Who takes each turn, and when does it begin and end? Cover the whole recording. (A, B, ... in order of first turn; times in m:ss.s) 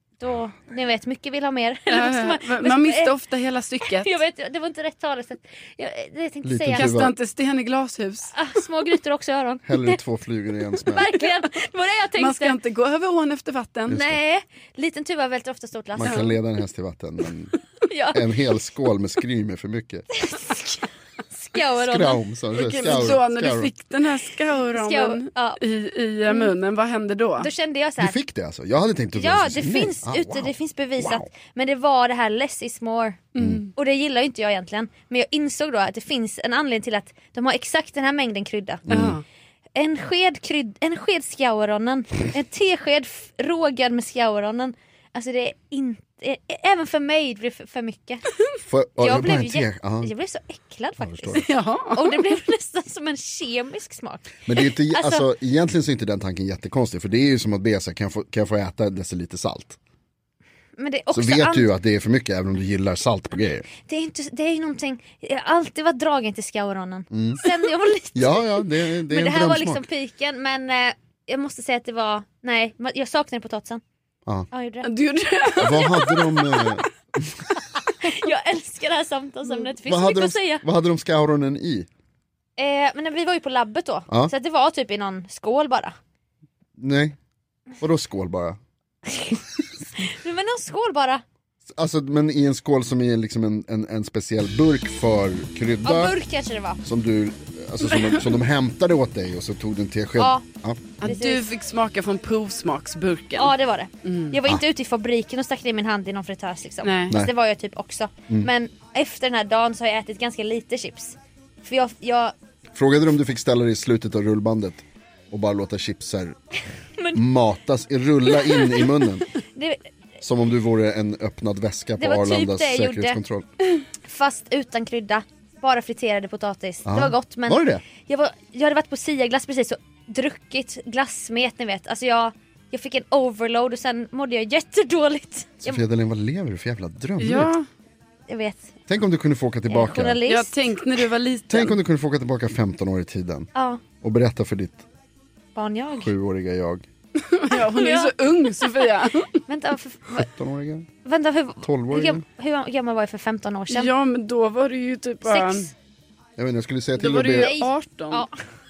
0:00.2-0:03.1 A
0:01.9-0:04.2 B
0:03.8-0:07.0 A
0:06.4-0:07.1 C
0:06.7-0:08.3 B
0:08.4-0:10.0 A
0:09.6-0:11.1 C
0:10.8-0:12.6 A
0:12.2-0:14.0 B
0:13.9-0:14.2 C
0:13.9-0:16.3 A
0:15.9-0:17.5 C
0:17.9-0:18.2 A
0:18.1-0:20.1 C
0:20.2-0:20.8 A
0:21.3-0:22.2 A
0:21.8-0:23.7 C
0:22.6-0:27.5 B
0:24.7-0:25.6 A
0:26.3-0:26.5 A
0:27.4-0:28.2 A
0:28.0-0:31.2 C
0:29.2-0:33.2 A
0:33.4-0:33.7 B
0:33.4-0:33.6 C
0:33.8-0:38.8 A
0:38.9-0:39.2 C
0:38.9-0:39.2 B
0:39.8-0:48.2 A
0:48.7-0:50.1 C
0:49.0-0:55.2 A
0:51.0-0:51.4 C
0:51.3-0:52.2 B
0:54.5-0:59.8 C
1:00.8-1:01.7 A
1:01.1-1:03.7 C
1:03.8-1:13.8 A
1:07.1-1:07.4 C
1:08.1-1:09.8 C
1:14.5-1:14.9 A
1:14.8-1:16.8 B
1:15.6-1:17.3 C
1:18.0-1:20.6 A
1:19.8-1:21.9 C
1:22.6-1:25.9 A
1:26.8-1:27.2 C
1:27.8-1:28.6 C
1:29.1-1:29.4 A
1:30.0-1:31.2 A
1:31.7-1:36.1 C
1:35.8-1:36.8 A
1:36.8-1:41.0 C
1:40.2-1:40.4 A
1:41.0-1:41.5 A
1:41.0-1:43.5 B
1:43.4-1:52.3 A
1:44.0-1:44.3 B
1:46.8-1:47.2 B
1:52.7-1:56.4 C
1:57.0-1:57.2 A
1:57.1-1:59.3 C
1:58.3-1:58.9 A
1:59.5-1:59.8 A
2:00.2-2:03.5 C
2:02.0-2:03.2 A
2:04.1-2:15.8 A
2:06.8-2:07.8 C
2:15.6-2:17.5 C
2:17.2-2:17.6 B
2:18.3-2:18.7 A
2:18.9-2:20.2 C
2:19.7-2:20.5 A
2:20.2-2:21.8 B
2:21.5-2:24.8 C
2:23.5-2:23.8 A
2:25.5-2:26.1 A
2:25.9-2:26.8 C
2:27.2-2:29.4 B
2:27.5-2:28.7 A
2:29.5-2:30.3 A
2:30.2-2:30.9 C
2:31.0-2:33.9 A
2:31.6-2:32.2 C
2:33.7-2:35.7 B
2:35.2-2:35.7 A
2:36.4-2:37.5 C
2:37.0-2:38.3 B
2:37.3-2:38.4 A